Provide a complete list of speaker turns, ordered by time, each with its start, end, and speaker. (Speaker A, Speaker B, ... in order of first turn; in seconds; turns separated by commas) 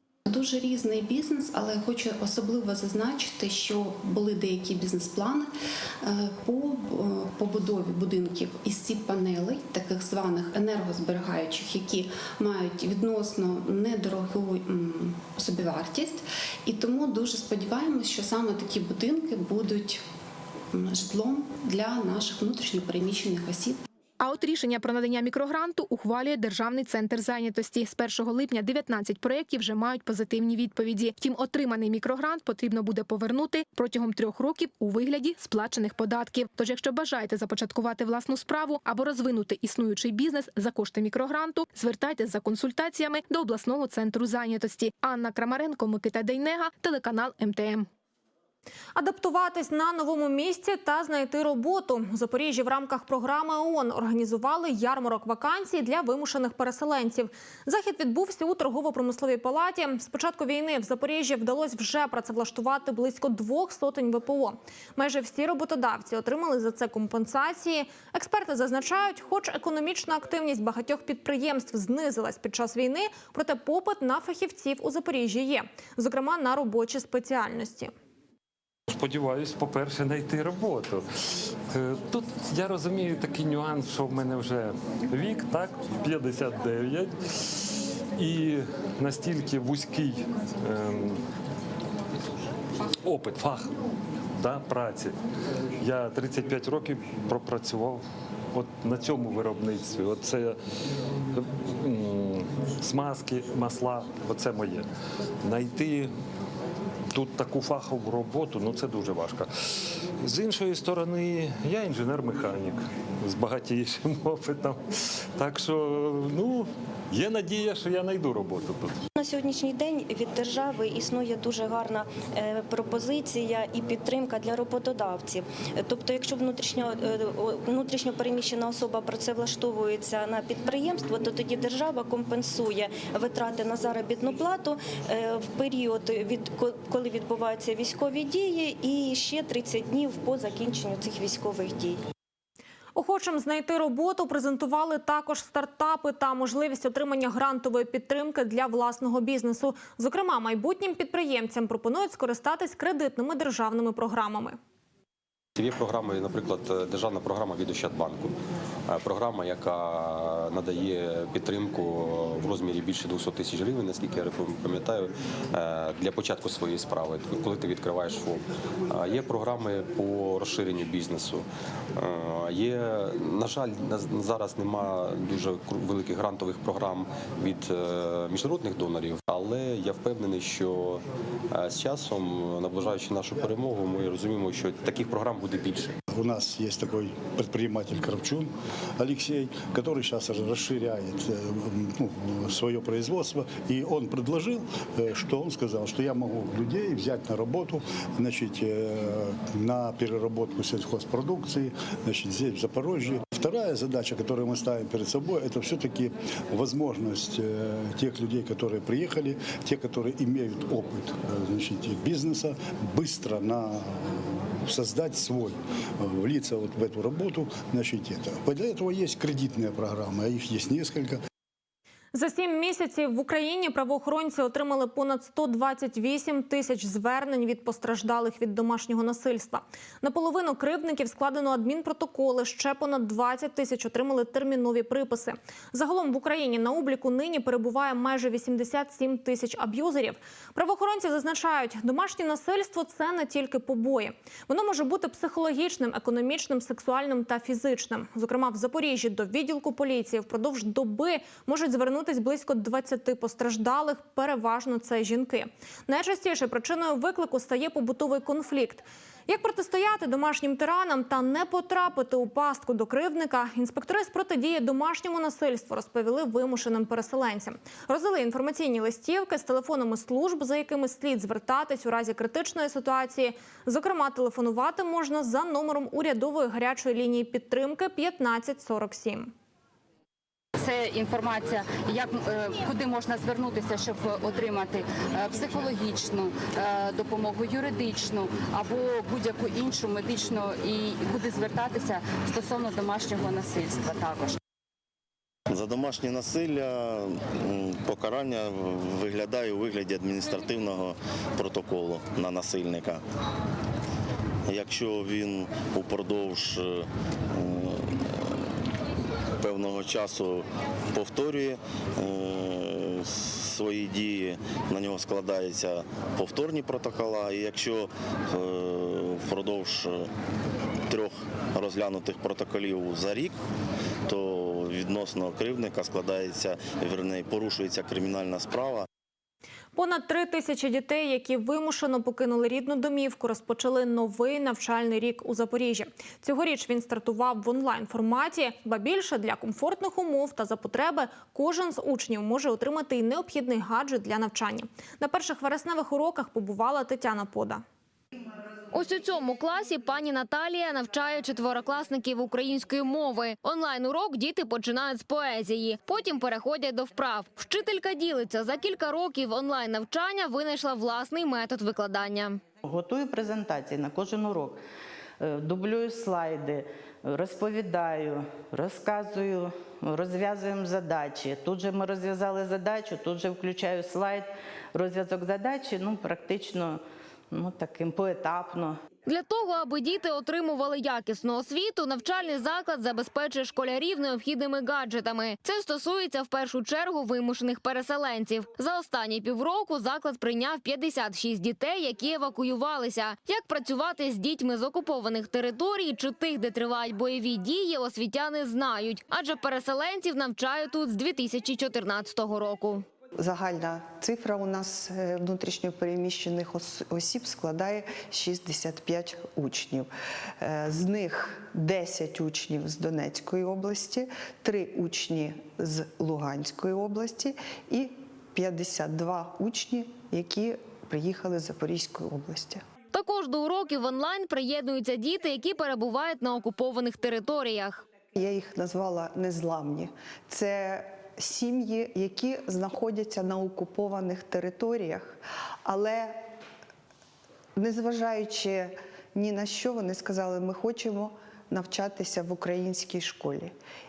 Speaker A: 0.3-20.0, Speaker A: 20.7-23.8, Speaker B: 24.2-47.9, Speaker C: 49.0-77.9, Speaker D: 78.9-81.0, Speaker D: 81.7-91.2, Speaker D: 92.9-93.8, Speaker D: 94.4-95.2, Speaker D: 95.8-100.6, Speaker D: 101.3-104.9, Speaker D: 105.4-106.1, Speaker D: 107.1-119.0, Speaker E: 119.2-142.0, Speaker C: 143.0-154.6, Speaker F: 155.6-158.3, Speaker F: 158.9-186.0, Speaker G: 186.1-221.2, Speaker C: 222.1-279.3, Speaker H: 280.6-294.4, Speaker I: 295.5-303.0, Speaker I: 304.5-308.2, Speaker I: 309.4-320.1, Speaker I: 320.9-323.4, Speaker I: 324.1-328.9, Speaker C: 329.8-347.6, Speaker J: 348.7-362.4, Speaker K: 362.6-364.6, Speaker K: 365.2-378.8, Speaker J: 379.1-402.9, Speaker L: 403.2-422.6, Speaker J: 422.9-427.9, Speaker L: 428.1-436.3, Speaker L: 437.6-443.5